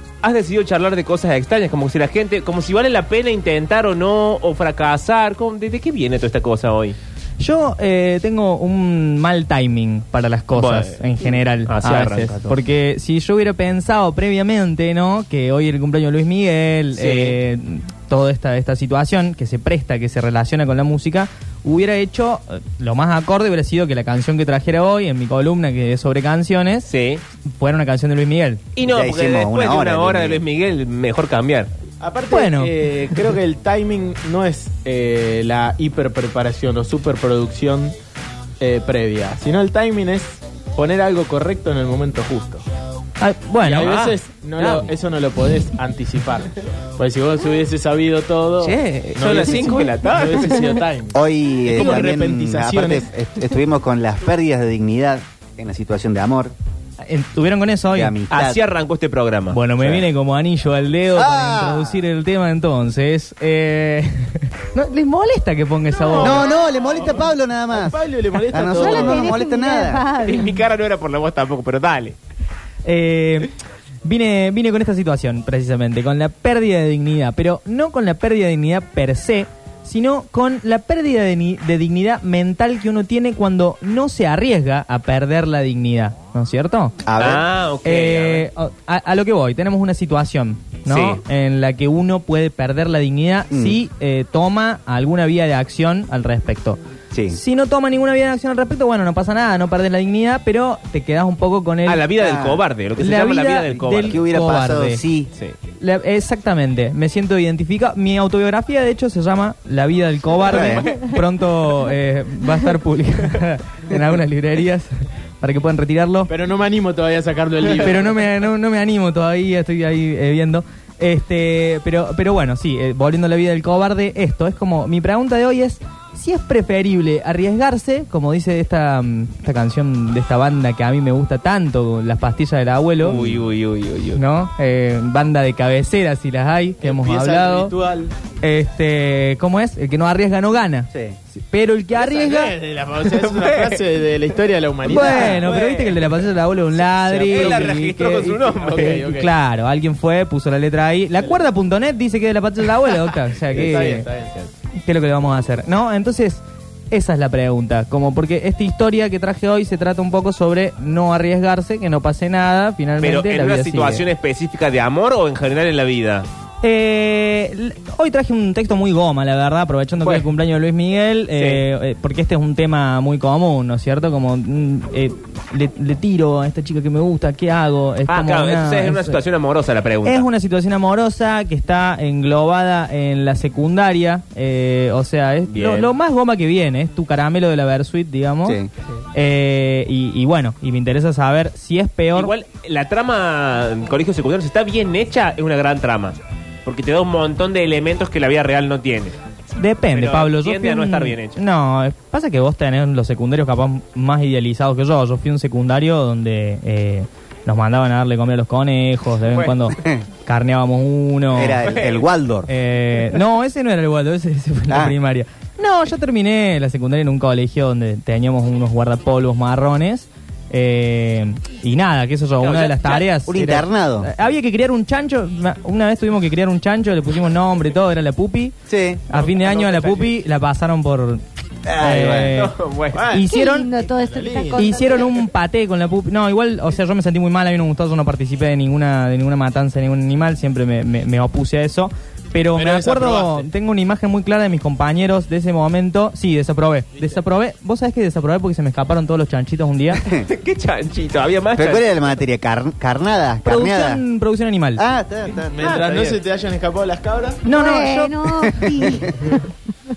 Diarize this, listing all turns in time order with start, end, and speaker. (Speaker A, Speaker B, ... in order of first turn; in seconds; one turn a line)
Speaker A: 0.2-7.0
Speaker B: 7.4-26.9
Speaker A: 10.5-12.6
Speaker A: 16.9-17.4
Speaker A: 26.8-27.2
Speaker B: 27.5-28.6
Speaker A: 28.8-31.7
Speaker C: 28.8-30.4
Speaker D: 32.0-38.0
Speaker B: 32.3-33.2
Speaker D: 38.6-42.6
Speaker B: 43.2-43.9
Speaker A: 43.6-44.9
Speaker D: 43.6-53.1
Speaker A: 48.6-50.7
Speaker C: 51.1-56.5
Speaker B: 57.0-58.2
Speaker C: 57.9-58.6
Speaker A: 58.3-59.6
Speaker B: 59.5-66.4
Speaker C: 59.8-60.0
Speaker C: 61.1-62.0
Speaker D: 66.1-69.4
Speaker A: 66.2-66.4
Speaker C: 66.2-68.0
Speaker C: 68.5-70.0
Speaker E: 68.7-70.6
Speaker A: 70.2-72.2
Speaker B: 72.8-73.5
Speaker B: 74.0-87.0
Speaker C: 87.0-87.5
Speaker A: 87.2-88.5
Speaker B: 87.8-96.8
Speaker A: 90.9-91.2
Speaker C: 93.5-93.8
Speaker C: 97.1-97.4
Speaker B: 97.3-102.3
Speaker A: 101.8-104.2
Speaker C: 102.2-102.6
Speaker B: 103.0-105.0
Speaker C: 104.0-105.3
Speaker B: 105.8-116.3
Speaker A: 110.4-111.2
Speaker C: 110.5-110.8
Speaker D: 116.3-118.1
Speaker B: 117.8-133.2
Speaker A: 133.0-134.2
Speaker B: 134.2-137.7
Speaker D: 136.8-138.1
Speaker B: 138.4-142.6
Speaker C: 140.9-141.2
Speaker D: 142.0-145.7
Speaker A: 143.2-143.8
Speaker B: 144.8-154.1
Speaker A: 144.9-146.0
Speaker D: 146.8-147.8
Speaker A: 147.3-149.0
Speaker D: 148.5-149.3
Speaker D: 153.4-154.4
Speaker B: 154.8-164.0
Speaker A: 163.0-166.3
Speaker B: 166.6-179.2
Speaker A: 171.3-171.6
Speaker A: 178.1-180.3
Speaker B: 180.0-188.6
Speaker A: 185.5-185.9
Speaker C: 188.4-188.7
Speaker B: 189.1-192.3
Speaker A: 192.1-199.1
Speaker B: 199.6-211.7
Speaker A: 199.9-201.4
Speaker A: 209.3-209.6
Speaker C: 211.3-212.5
Speaker A: 211.6-212.1
Speaker B: 212.5-228.5
Speaker C: 214.7-214.9
Speaker A: 222.4-223.1
Speaker C: 223.3-224.1
Speaker C: 228.7-229.0
Speaker B: 229.1-231.2
Speaker A: 229.1-230.1
Speaker C: 231.6-232.4
Speaker B: 231.8-232.5
Speaker A: 232.3-233.1
Speaker D: 232.9-234.7
Speaker B: 233.1-233.7
Speaker E: 233.2-235.1
Speaker B: 234.6-250.0
Speaker D: 242.5-243.5
Speaker A: 250.1-251.9
Speaker C: 251.5-254.0
Speaker B: 253.4-254.8
Speaker C: 254.8-255.6
Speaker D: 255.5-257.6
Speaker A: 255.6-256.2
Speaker B: 257.4-258.1
Speaker E: 257.6-259.5
Speaker C: 258.4-259.1